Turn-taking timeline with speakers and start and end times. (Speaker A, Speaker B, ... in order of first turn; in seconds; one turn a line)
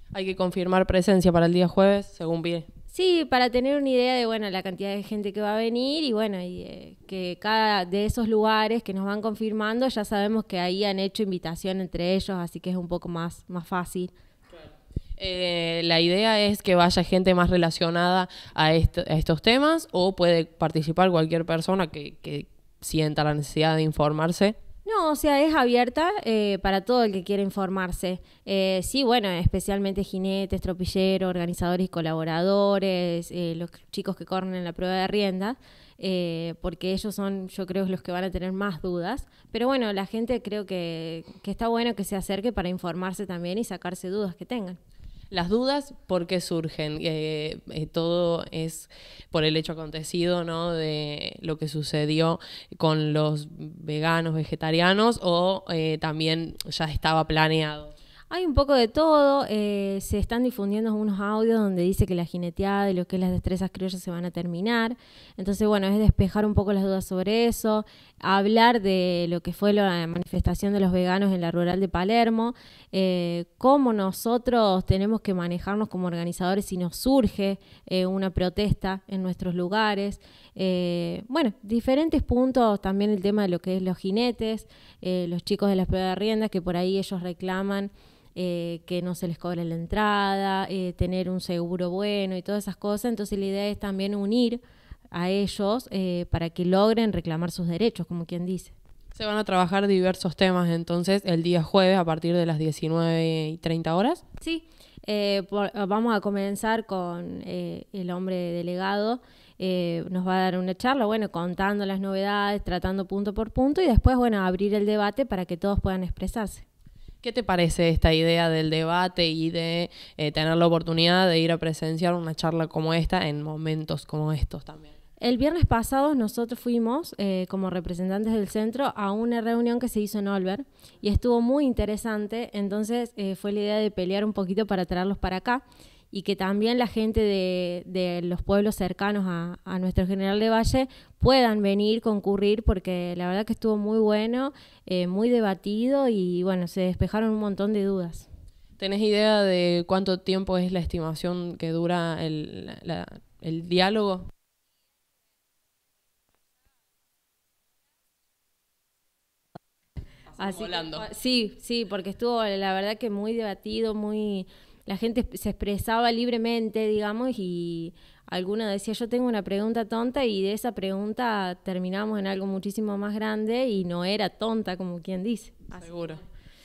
Speaker A: 0.1-2.7
Speaker B: 2.9-14.1
Speaker A: 15.2-24.6
Speaker B: 24.9-44.8
Speaker A: 45.3-57.9
Speaker B: 58.3-94.6
Speaker B: 95.1-98.8
Speaker A: 99.1-104.2
Speaker B: 104.4-116.7
Speaker A: 117.2-124.9
Speaker B: 125.2-148.3
Speaker A: 148.8-154.3
Speaker A: 160.3-161.1
Speaker B: 160.4-176.2
Speaker A: 175.8-176.2